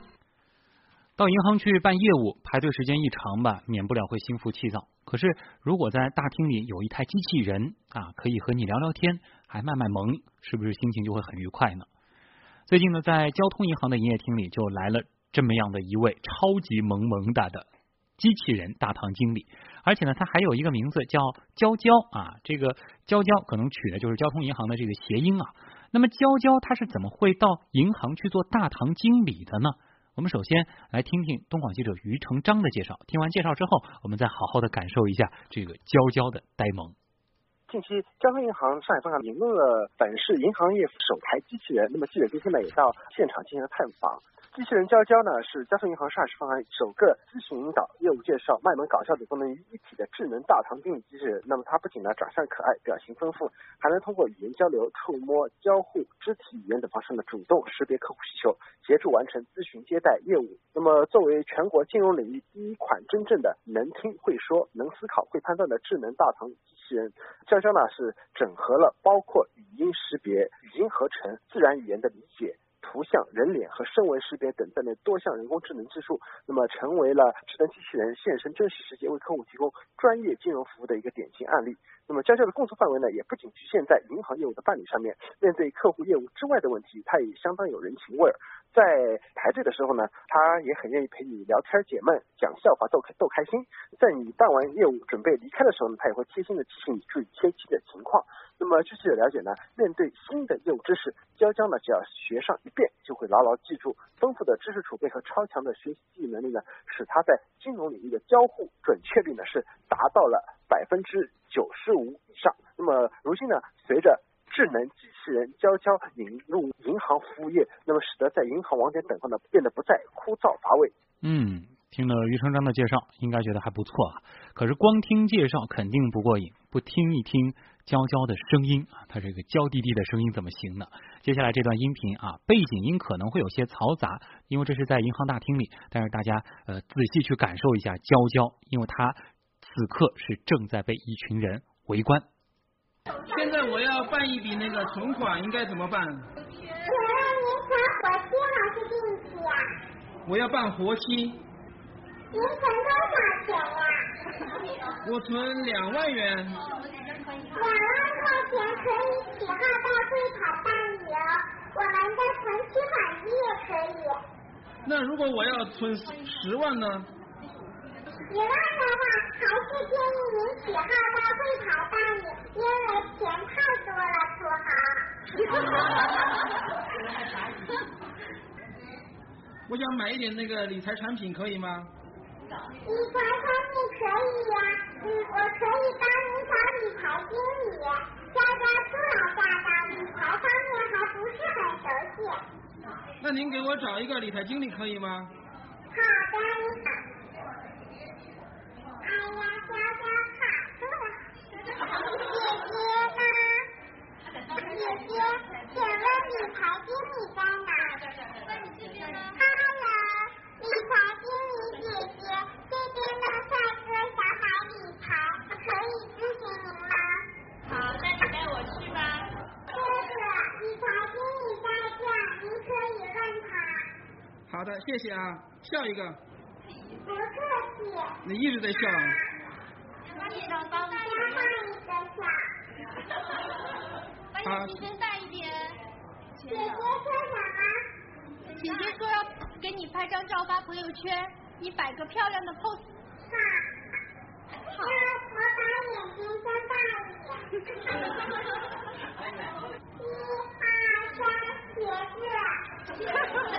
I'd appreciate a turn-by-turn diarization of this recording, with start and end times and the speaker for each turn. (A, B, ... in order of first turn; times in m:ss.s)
0:01.2-0:11.9 A
0:12.7-0:17.6 A
0:18.2-0:36.9 A
0:37.7-2:00.9 B
2:01.2-2:22.2 A
2:23.3-2:26.3 C
2:26.8-2:29.7 D
2:30.2-2:31.4 C
2:32.3-2:34.1 D
2:35.0-2:36.6 C
2:37.5-2:44.2 D
2:44.8-2:47.0 C
2:48.3-2:56.2 D
2:59.7-3:01.9 C
3:02.8-3:12.4 D
3:13.2-3:15.3 C
3:15.9-3:17.0 D
3:19.0-3:21.2 D
3:21.8-3:23.7 D
3:24.5-3:28.1 D
3:28.6-3:29.0 E
3:29.1-3:37.2 D
3:38.1-3:39.3 E
3:39.7-3:43.9 D
3:44.5-3:46.2 C
3:47.0-3:48.2 D
3:48.3-3:49.1 C
3:50.2-3:51.5 E
3:50.6-3:52.5 D
3:54.3-3:55.8 E
3:56.4-3:57.8 D
3:58.5-4:02.9 E
4:03.3-4:03.7 D
4:04.8-4:08.0 D
4:10.0-4:12.6 D